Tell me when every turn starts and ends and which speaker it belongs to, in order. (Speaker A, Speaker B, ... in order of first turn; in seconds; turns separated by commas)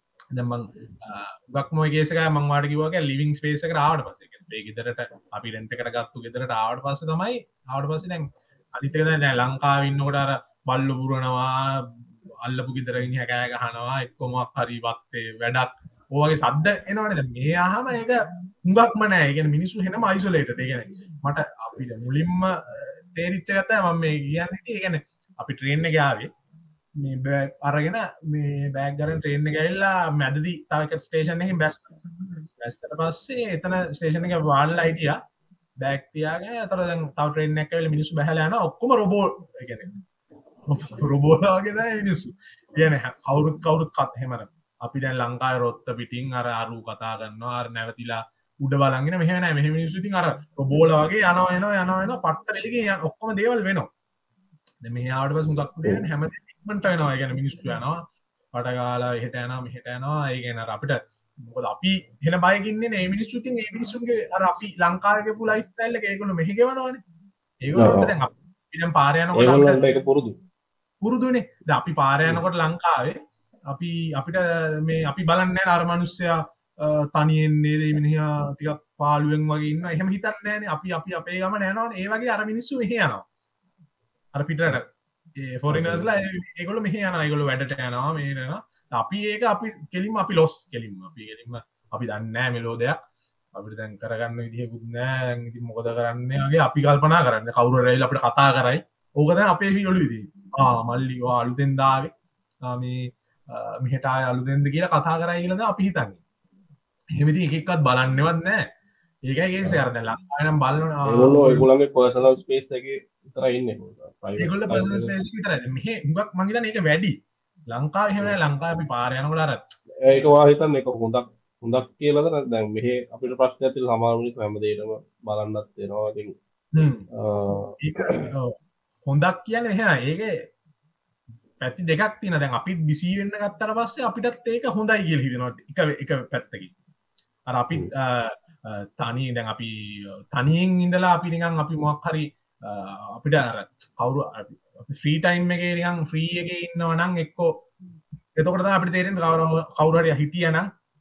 Speaker A: 0.3-26.3, Speaker A: 27.0-35.2, Speaker A: 35.8-39.9, Speaker A: 40.7-53.9, Speaker A: 54.8-58.0, Speaker A: 58.5-67.0, Speaker A: 67.6-69.9, Speaker B: 67.8-68.1, Speaker B: 69.3-70.3, Speaker A: 71.0-83.2, Speaker A: 84.3-93.0, Speaker B: 85.7-86.1, Speaker A: 93.5-102.1, Speaker A: 102.7-106.2, Speaker A: 107.2-108.6, Speaker A: 109.3-111.7, Speaker B: 111.1-115.1, Speaker A: 114.4-117.2, Speaker A: 117.7-119.6, Speaker B: 120.0-126.3, Speaker A: 126.7-127.0, Speaker B: 127.1-128.3, Speaker A: 127.8-130.3, Speaker A: 131.6-136.7, Speaker A: 137.5-139.7, Speaker A: 140.3-147.5, Speaker A: 148.3-150.7